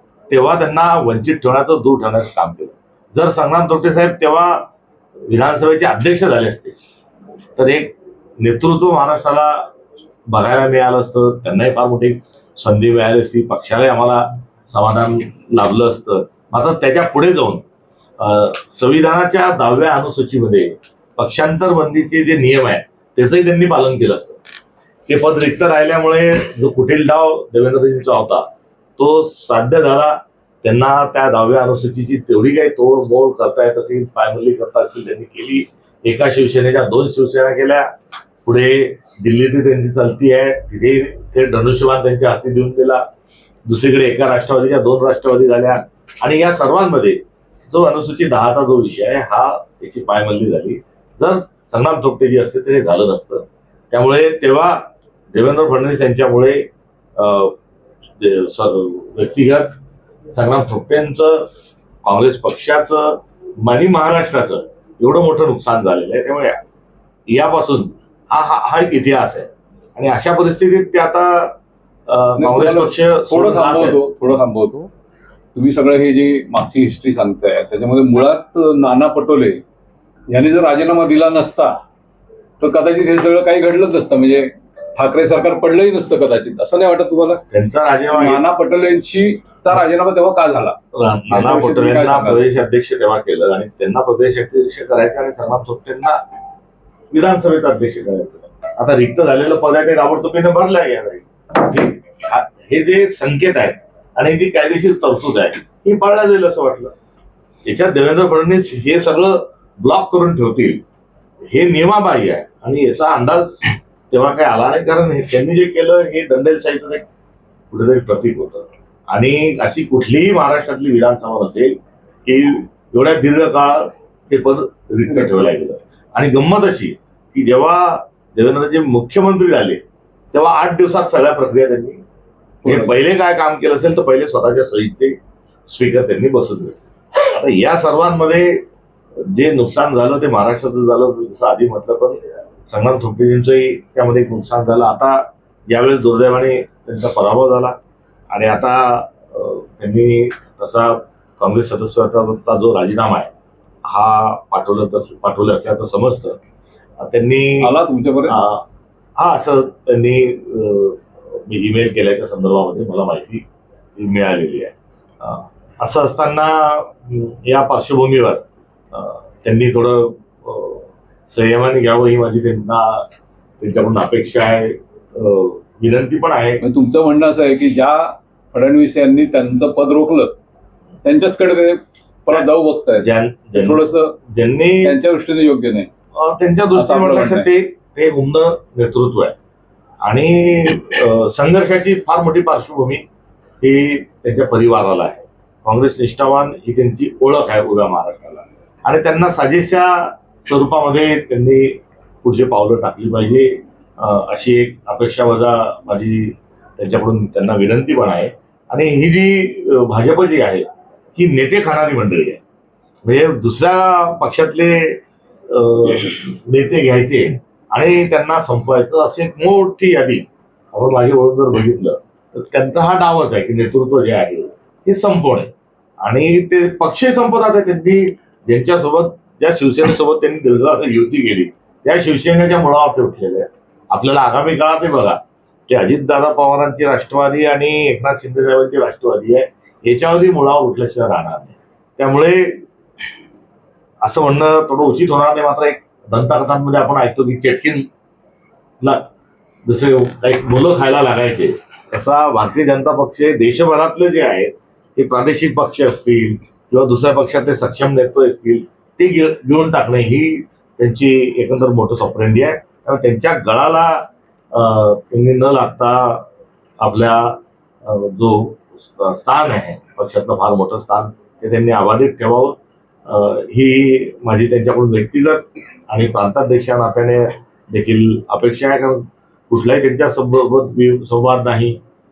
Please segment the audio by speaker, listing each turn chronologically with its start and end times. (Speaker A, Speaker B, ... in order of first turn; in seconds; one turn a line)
Speaker A: 0.3-4.7
Speaker A: 5.3-6.8
Speaker A: 7.6-9.7
Speaker A: 10.3-17.6
Speaker A: 18.2-24.4
Speaker A: 25.1-37.9
Speaker A: 38.4-43.0
Speaker A: 43.7-57.6
Speaker A: 58.2-59.8
Speaker A: 60.3-61.5
Speaker A: 62.0-66.6
Speaker A: 67.3-74.0
Speaker B: 72.4-74.9
Speaker B: 75.5-79.6
Speaker B: 80.3-81.8
Speaker B: 82.6-87.4
Speaker A: 87.5-88.4
Speaker B: 88.1-90.8
Speaker A: 91.0-96.2
Speaker B: 91.3-92.5
Speaker A: 97.1-106.9
Speaker A: 107.7-110.8
Speaker A: 111.5-117.1
Speaker A: 117.7-129.8
Speaker A: 130.3-132.0
Speaker B: 132.7-132.9
Speaker A: 132.7-135.2
Speaker A: 135.7-138.6
Speaker A: 139.2-147.8
Speaker A: 148.3-153.3
Speaker A: 153.8-156.4
Speaker A: 157.0-157.7
Speaker B: 157.6-158.4
Speaker A: 158.3-158.6
Speaker A: 159.2-163.4
Speaker A: 164.0-173.1
Speaker A: 173.6-176.6
Speaker B: 176.6-180.3
Speaker B: 181.1-184.2
Speaker A: 183.0-184.9
Speaker B: 184.8-185.9
Speaker A: 186.2-189.3
Speaker B: 186.8-187.5
Speaker A: 190.0-193.1
Speaker A: 193.6-212.4
Speaker A: 213.1-242.6
Speaker A: 244.0-247.9
Speaker A: 248.8-249.1
Speaker A: 249.7-266.3
Speaker A: 266.8-281.8